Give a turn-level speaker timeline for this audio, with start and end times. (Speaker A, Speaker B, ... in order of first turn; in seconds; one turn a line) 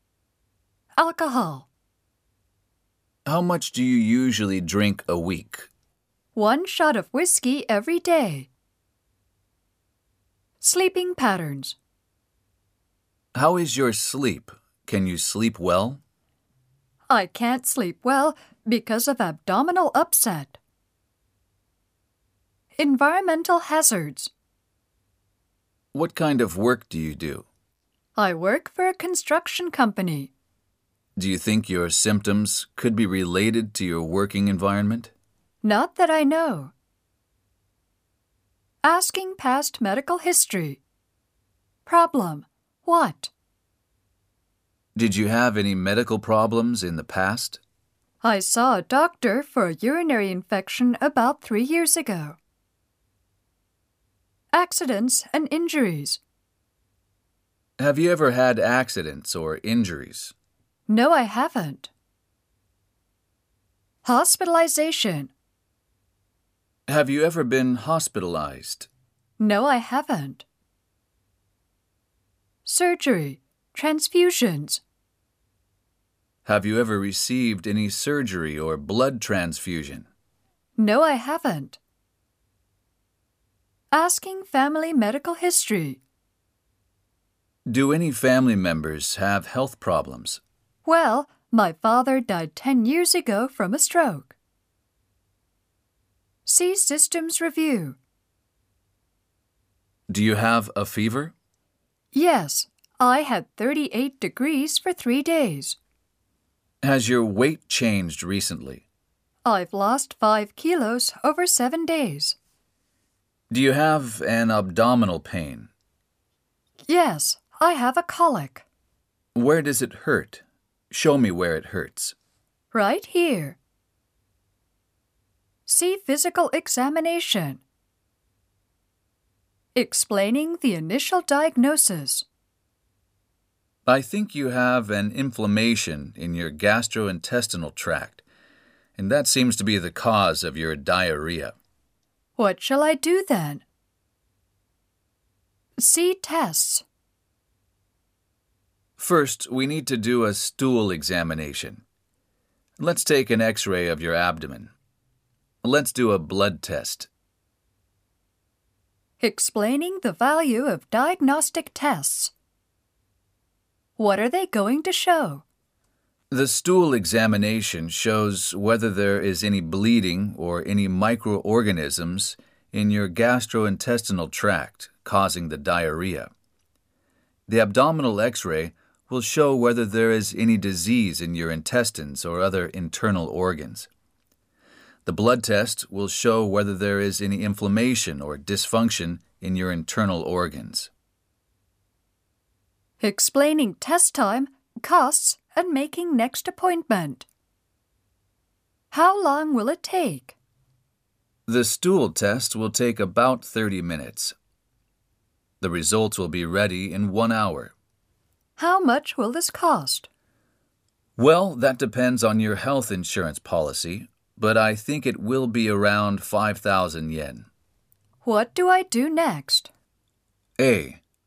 Speaker A: 1.0-1.7
Speaker B: 3.3-5.7
Speaker A: 6.3-8.5
Speaker A: 10.6-11.8
Speaker B: 13.3-16.0
Speaker A: 17.1-20.6
Speaker A: 22.8-24.3
Speaker B: 25.9-27.5
Speaker A: 28.2-30.3
Speaker B: 31.2-35.1
Speaker A: 35.6-36.7
Speaker A: 38.8-40.8
Speaker A: 41.9-43.3
Speaker B: 45.0-47.6
Speaker A: 48.2-52.4
Speaker A: 54.5-56.2
Speaker B: 57.8-60.3
Speaker A: 60.9-61.9
Speaker A: 64.0-65.3
Speaker B: 66.9-68.9
Speaker A: 69.4-70.5
Speaker A: 72.7-74.8
Speaker B: 76.5-80.1
Speaker A: 80.8-81.8
Speaker A: 83.9-86.0
Speaker B: 87.7-90.4
Speaker A: 90.9-94.3
Speaker A: 96.5-98.0
Speaker B: 100.1-101.3
Speaker A: 102.1-105.8
Speaker B: 106.8-108.8
Speaker A: 109.5-112.4
Speaker B: 113.5-115.7
Speaker A: 116.9-118.7
Speaker B: 119.3-122.2
Speaker A: 122.7-123.6
Speaker A: 125.7-127.6
Speaker A: 129.8-132.2
Speaker B: 133.9-138.2
Speaker B: 139.0-141.6
Speaker A: 142.4-143.6
Speaker A: 145.8-146.8
Speaker B: 149.0-151.8
Speaker B: 152.8-154.7
Speaker B: 155.6-157.1
Speaker A: 159.2-162.3
Speaker A: 164.0-165.4
Speaker B: 166.3-176.3
Speaker B: 177.5-183.9
Speaker B: 185.1-190.9
Speaker A: 193.0-197.3
Speaker A: 198.9-200.4
Speaker B: 201.5-204.3
Speaker B: 205.6-207.7
Speaker A: 208.6-210.1
Speaker B: 211.2-217.5
Speaker A: 218.2-219.7
Speaker B: 220.6-221.0